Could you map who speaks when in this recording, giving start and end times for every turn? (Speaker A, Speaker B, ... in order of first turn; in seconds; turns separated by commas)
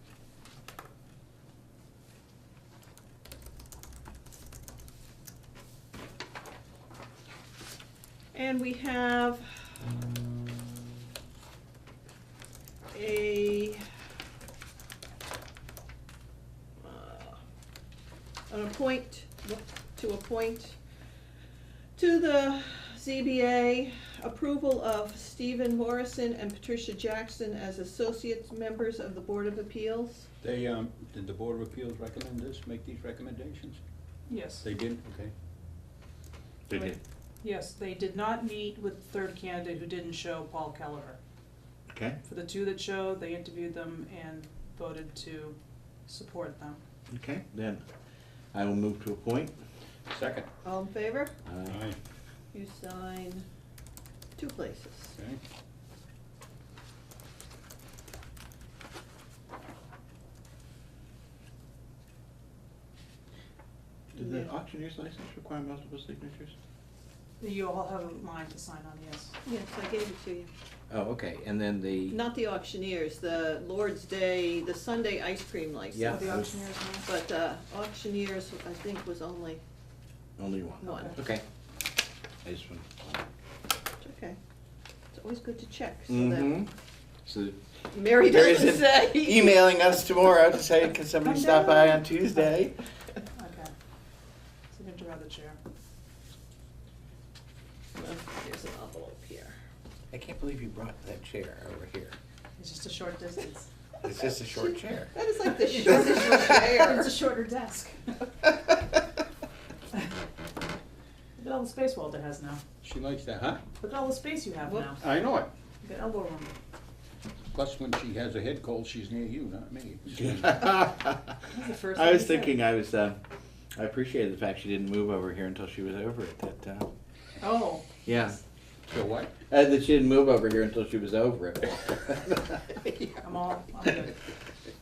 Speaker A: 8.3-9.7, Speaker A: 12.9-13.8, Speaker A: 16.8-17.4, Speaker A: 18.5-20.8, Speaker A: 22.0-30.3, Speaker B: 30.4-33.8, Speaker C: 34.3-34.6, Speaker B: 34.6-35.3, Speaker D: 36.7-37.0, Speaker C: 37.4-41.2, Speaker D: 41.9-42.2, Speaker C: 42.2-45.5, Speaker C: 46.1-46.8, Speaker D: 47.1-47.8, Speaker D: 48.5-49.5, Speaker B: 50.1-50.5, Speaker A: 50.6-51.3, Speaker D: 51.5-51.8, Speaker B: 51.7-52.0, Speaker A: 52.5-53.4, Speaker A: 54.4-55.1, Speaker B: 55.1-55.4, Speaker D: 64.1-66.5, Speaker A: 64.2-64.5, Speaker C: 67.4-69.3, Speaker A: 69.4-70.5, Speaker D: 70.9-72.2, Speaker A: 72.1-76.4, Speaker D: 75.9-76.5, Speaker C: 76.0-77.1, Speaker A: 77.0-79.6, Speaker D: 80.4-81.4, Speaker A: 80.8-81.2, Speaker C: 80.8-81.1, Speaker D: 82.4-83.2, Speaker A: 84.0-84.4, Speaker A: 85.1-86.6, Speaker D: 86.1-86.7, Speaker D: 87.2-92.7, Speaker A: 87.9-89.6, Speaker C: 91.2-92.5, Speaker C: 93.3-93.7, Speaker C: 94.7-95.6, Speaker A: 97.9-99.5, Speaker D: 100.1-102.2, Speaker C: 102.6-103.7, Speaker D: 104.0-105.1, Speaker A: 104.5-107.1, Speaker C: 105.7-108.0, Speaker C: 111.4-112.6, Speaker B: 112.8-113.6, Speaker C: 113.8-115.0, Speaker B: 115.0-115.5, Speaker C: 115.8-116.5, Speaker B: 117.5-120.7, Speaker D: 120.2-121.4, Speaker C: 121.5-122.6, Speaker D: 121.9-123.2, Speaker D: 123.7-126.9, Speaker C: 127.4-127.9, Speaker D: 128.1-128.4, Speaker B: 128.9-129.3, Speaker D: 129.5-133.1, Speaker C: 133.2-134.2